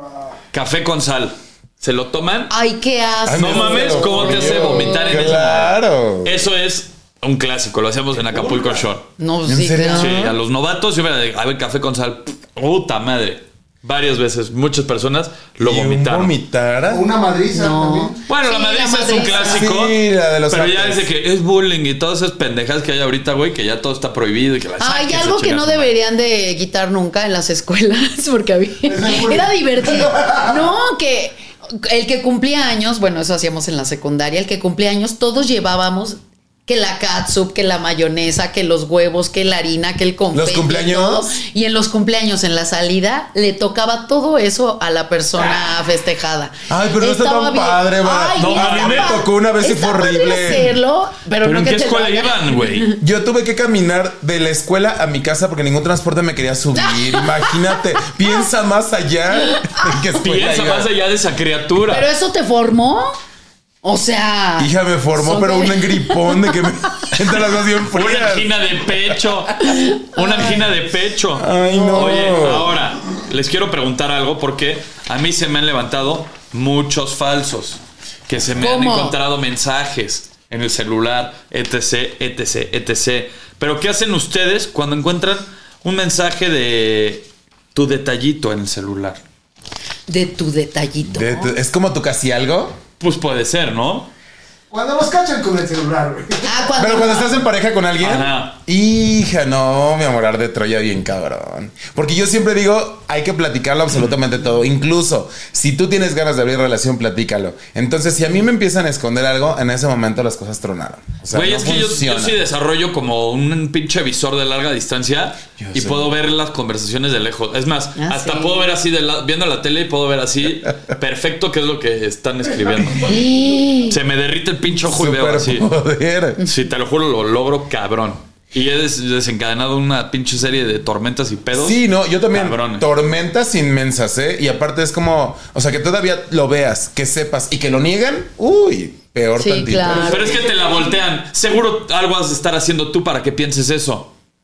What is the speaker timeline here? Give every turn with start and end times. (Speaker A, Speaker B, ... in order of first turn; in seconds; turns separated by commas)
Speaker A: 0.5-2.5, Speaker B: 2.5-5.3, Speaker C: 3.2-6.4, Speaker A: 3.3-9.1, Speaker B: 9.2-10.3, Speaker C: 9.4-10.3, Speaker A: 9.9-16.3, Speaker C: 15.6-17.0, Speaker D: 16.9-18.1, Speaker B: 17.5-19.7, Speaker A: 18.3-20.0, Speaker C: 19.3-21.1, Speaker A: 20.5-25.9, Speaker B: 24.8-53.0, Speaker D: 28.9-30.7, Speaker C: 40.3-41.4, Speaker C: 46.7-50.8, Speaker A: 48.4-49.2, Speaker A: 51.4-53.0, Speaker C: 53.0-60.9, Speaker B: 56.8-57.7, Speaker B: 59.4-60.0, Speaker A: 60.2-62.1, Speaker B: 61.9-63.1, Speaker B: 63.8-67.1, Speaker C: 64.6-68.5, Speaker A: 67.9-89.2, Speaker B: 69.6-70.6, Speaker C: 71.3-72.8, Speaker D: 71.8-72.1, Speaker B: 78.6-79.2, Speaker B: 90.1-91.5, Speaker C: 91.0-92.8, Speaker A: 93.0-94.1, Speaker D: 94.7-96.7, Speaker B: 96.4-97.3, Speaker C: 96.8-112.4, Speaker A: 98.0-98.5, Speaker A: 111.3-123.2, Speaker C: 115.6-116.1, Speaker B: 118.0-118.7, Speaker B: 123.0-124.0, Speaker A: 123.8-125.7, Speaker C: 124.7-126.4, Speaker A: 126.4-131.8, Speaker C: 131.5-140.2, Speaker A: 132.3-132.8, Speaker B: 139.4-140.5, Speaker D: 139.9-140.8, Speaker A: 140.0-144.1